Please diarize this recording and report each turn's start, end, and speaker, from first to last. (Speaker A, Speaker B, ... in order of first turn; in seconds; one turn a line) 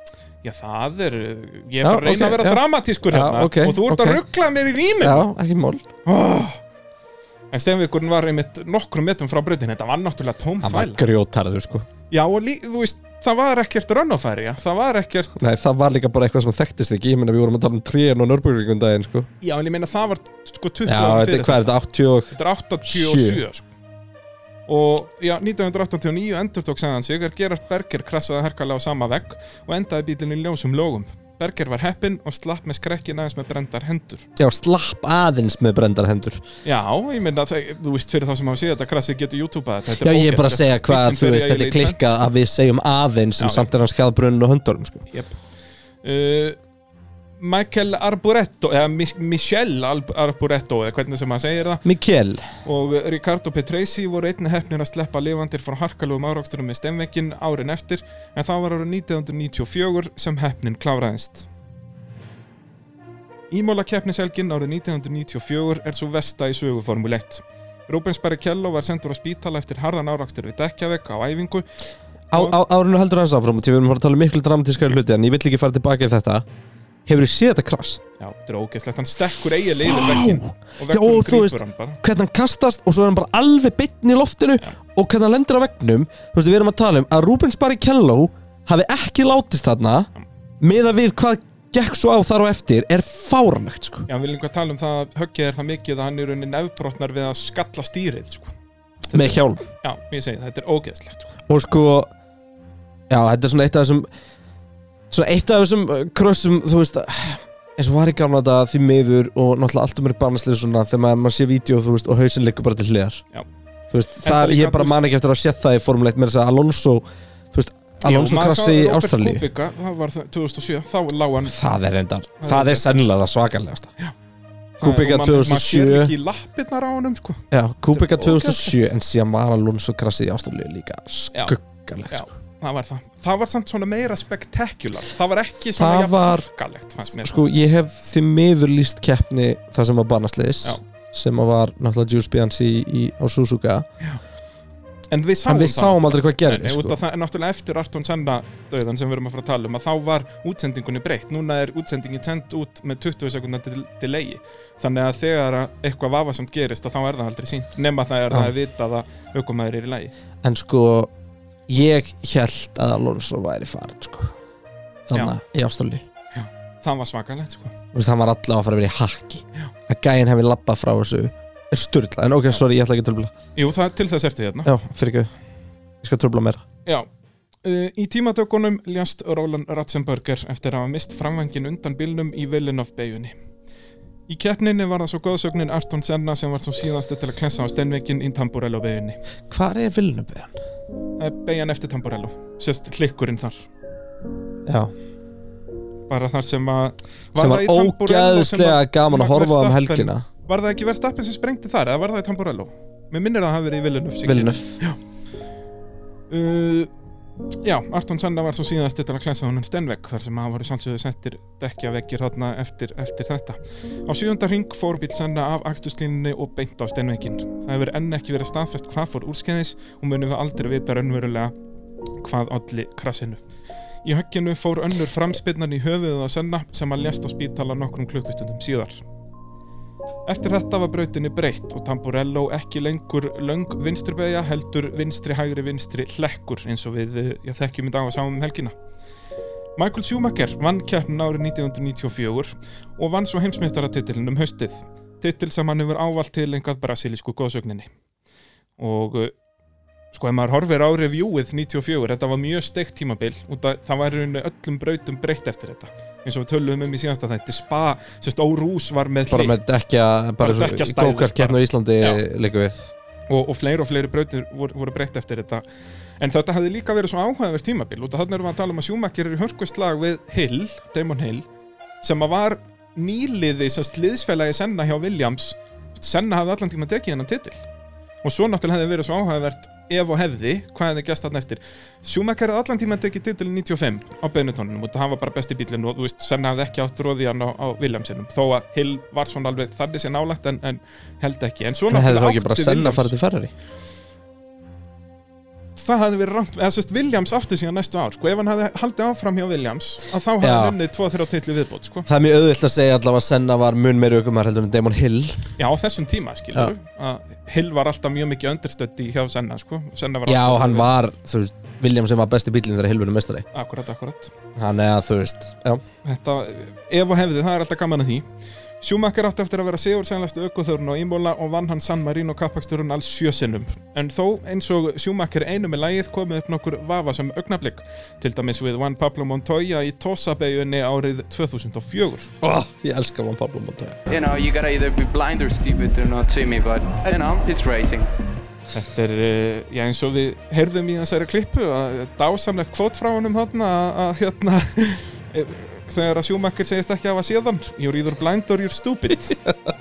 Speaker A: 0.4-5.3
Speaker B: 1.8-4.2
Speaker B: 5.0-5.8
Speaker A: 6.1-6.6
Speaker A: 7.5-11.1
Speaker B: 10.6-11.9
Speaker A: 12.1-15.4
Speaker B: 15.4-19.3
Speaker A: 19.4-21.8
Speaker B: 20.9-23.4
Speaker A: 22.3-23.7
Speaker A: 24.7-34.3
Speaker B: 34.4-36.4
Speaker A: 36.6-42.0
Speaker B: 40.0-45.1
Speaker A: 43.4-43.7
Speaker A: 46.0-46.6
Speaker A: 47.4-51.8
Speaker B: 51.9-52.5
Speaker A: 52.6-61.5
Speaker A: 63.5-71.7
Speaker B: 72.3-76.5
Speaker A: 72.3-72.6
Speaker B: 77.1-78.0
Speaker A: 78.2-82.0
Speaker B: 79.8-90.1
Speaker B: 90.6-94.1
Speaker A: 94.1-98.5
Speaker A: 99.1-101.3
Speaker B: 99.1-99.7
Speaker B: 101.5-102.1
Speaker B: 103.1-104.1
Speaker B: 105.1-113.2
Speaker B: 113.9-119.4
Speaker A: 114.2-115.0
Speaker A: 118.0-121.6
Speaker B: 121.5-123.9
Speaker A: 122.4-122.9
Speaker A: 124.8-128.8
Speaker B: 124.8-126.1
Speaker B: 127.5-132.3
Speaker A: 132.1-137.4
Speaker B: 135.8-136.5
Speaker B: 137.1-143.9
Speaker A: 145.1-160.1
Speaker B: 145.5-147.0
Speaker B: 160.4-161.1
Speaker B: 161.7-164.3
Speaker B: 165.1-166.0
Speaker A: 166.3-167.8
Speaker B: 167.9-173.3
Speaker A: 173.6-174.7
Speaker B: 174.7-175.3
Speaker B: 176.0-176.6
Speaker A: 177.6-183.4
Speaker A: 184.3-189.2
Speaker B: 189.5-190.5
Speaker A: 191.2-193.6
Speaker B: 194.7-194.9
Speaker A: 196.1-205.0
Speaker B: 197.4-200.3
Speaker B: 204.3-204.8
Speaker A: 206.3-206.9
Speaker A: 207.6-221.6
Speaker A: 222.2-223.4
Speaker A: 224.0-229.0
Speaker A: 230.3-238.8
Speaker A: 239.8-247.9
Speaker A: 248.8-249.3
Speaker A: 250.1-259.6
Speaker B: 259.3-262.9
Speaker A: 260.4-262.2
Speaker A: 263.3-265.6
Speaker A: 266.2-271.5
Speaker A: 272.0-277.6
Speaker A: 278.2-293.1
Speaker B: 291.9-293.5
Speaker A: 295.8-302.1
Speaker B: 300.4-300.8
Speaker B: 302.1-305.4
Speaker A: 305.6-310.9
Speaker B: 310.3-313.5
Speaker A: 313.5-314.3
Speaker B: 314.6-315.8
Speaker A: 316.0-318.3
Speaker A: 318.8-332.3
Speaker B: 332.4-334.0
Speaker C: 334.1-338.1
Speaker A: 338.7-349.4